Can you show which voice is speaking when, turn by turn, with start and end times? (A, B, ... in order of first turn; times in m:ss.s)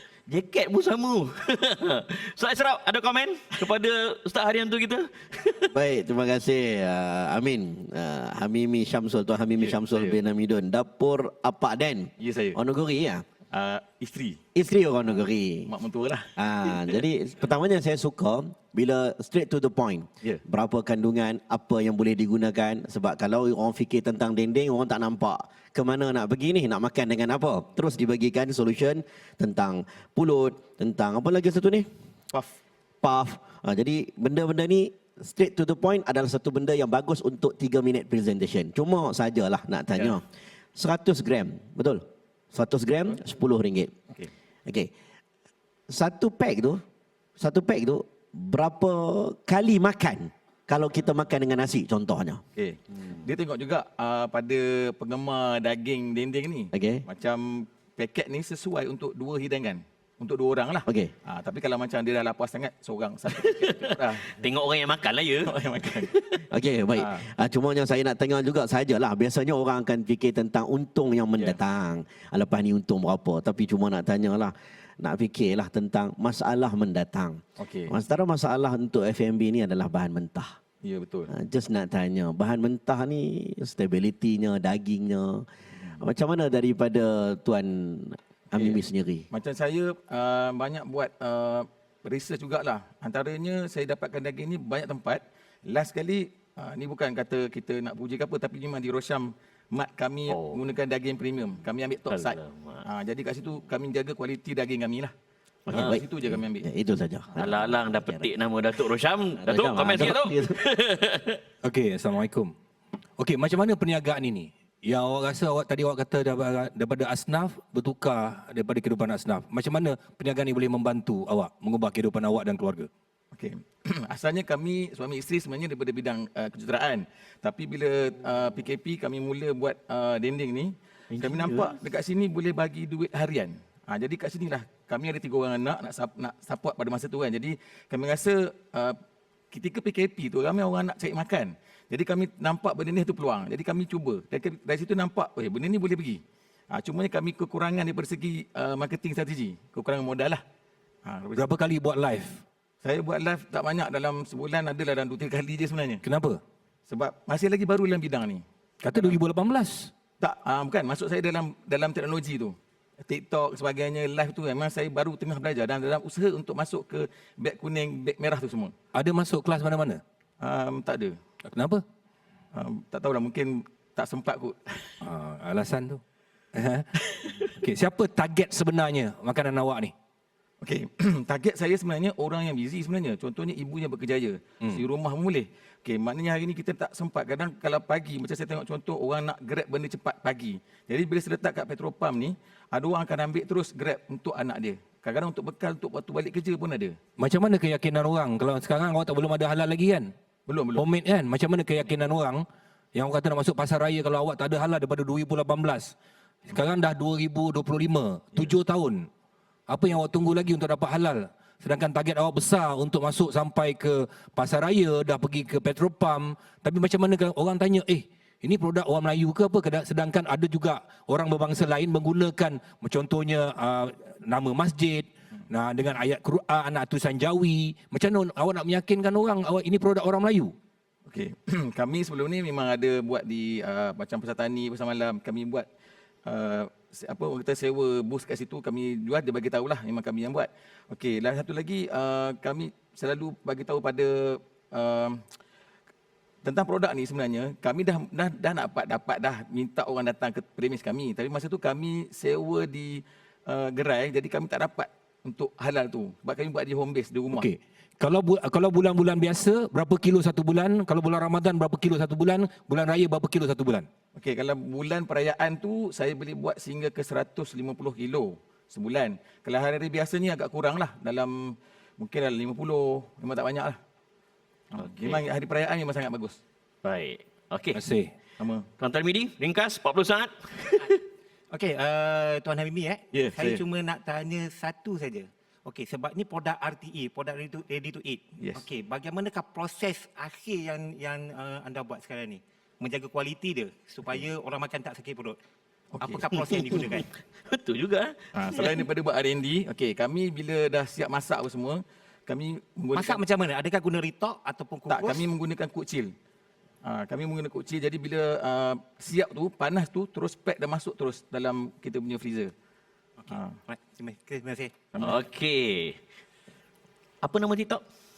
0:00.3-0:05.7 A
0:05.7-0:13.2 B
0:09.6-0:10.2 C
0:12.2-0:12.6 C
0:13.5-0:14.4 C
0:14.6-0:15.7 B
0:15.7-0:17.0 C
0:16.4-0:31.9 B
0:32.3-0:32.6 C
0:33.0-0:40.2 B
0:40.0-0:40.2 C
0:40.8-0:43.9 B
0:45.9-0:46.8 B
0:47.4-0:52.4 B
0:52.6-1:04.4 C
0:56.7-0:57.0 B
1:00.9-1:01.1 B
1:03.4-1:05.5 A
1:05.4-1:06.2 C
1:06.5-1:20.6 B
1:07.0-1:07.2 C
1:17.6-1:17.9 C
1:20.8-1:21.3 C
1:21.3-1:25.5 B
1:25.8-1:26.0 C
1:26.0-1:29.3 B
1:28.5-1:45.1 C
1:40.3-1:40.6 A
1:42.1-1:42.8 A
1:45.7-1:48.3 B
1:45.7-1:46.0 A
1:45.7-1:46.6 C
1:47.4-1:51.4 A
1:49.4-1:50.6 B
1:51.6-1:52.5 D
1:53.2-2:02.9 D
2:03.3-2:19.0 C
2:11.1-2:11.7 A
2:19.5-2:26.2 C
2:26.7-2:30.4 C
2:31.0-2:31.5 C
2:31.4-2:32.4 D
2:32.8-2:36.0 C
2:36.0-2:36.4 D
2:36.9-2:39.2 C
2:38.9-2:39.9 D
2:40.2-2:42.6 C
2:43.1-2:48.7 C
2:48.9-2:50.0 D
2:50.4-2:51.2 C
2:51.5-2:51.8 D
2:52.5-2:54.9 C
2:55.0-2:56.0 D
2:56.6-2:59.9 D
2:57.2-2:57.5 C
3:00.6-3:17.0 C
3:17.2-3:20.1 D
3:20.5-3:20.8 C
3:20.8-3:22.4 D
3:23.0-3:25.9 D
3:26.5-3:29.1 D
3:29.7-3:50.5 D
3:51.1-3:55.7 C
3:56.2-4:05.2 C
4:06.4-4:17.5 C
4:17.3-4:23.9 D
4:24.2-4:33.8 C
4:34.7-4:36.4 C
4:34.8-4:35.2 A
4:36.8-4:37.8 A
4:37.7-4:38.1 D
4:38.4-4:38.7 C
4:38.8-4:41.0 A
4:41.5-4:55.4 E
4:43.1-4:43.6 C
4:48.4-4:48.6 C
4:55.9-4:56.2 C
4:56.0-4:57.1 E
4:56.3-4:58.8 A
4:58.3-5:03.2 C
5:02.9-5:05.2 E
5:04.9-5:06.1 C
5:06.8-5:12.5 C
5:13.2-5:14.7 E
5:14.9-5:15.2 C
5:15.0-5:16.0 A
5:17.2-5:17.8 A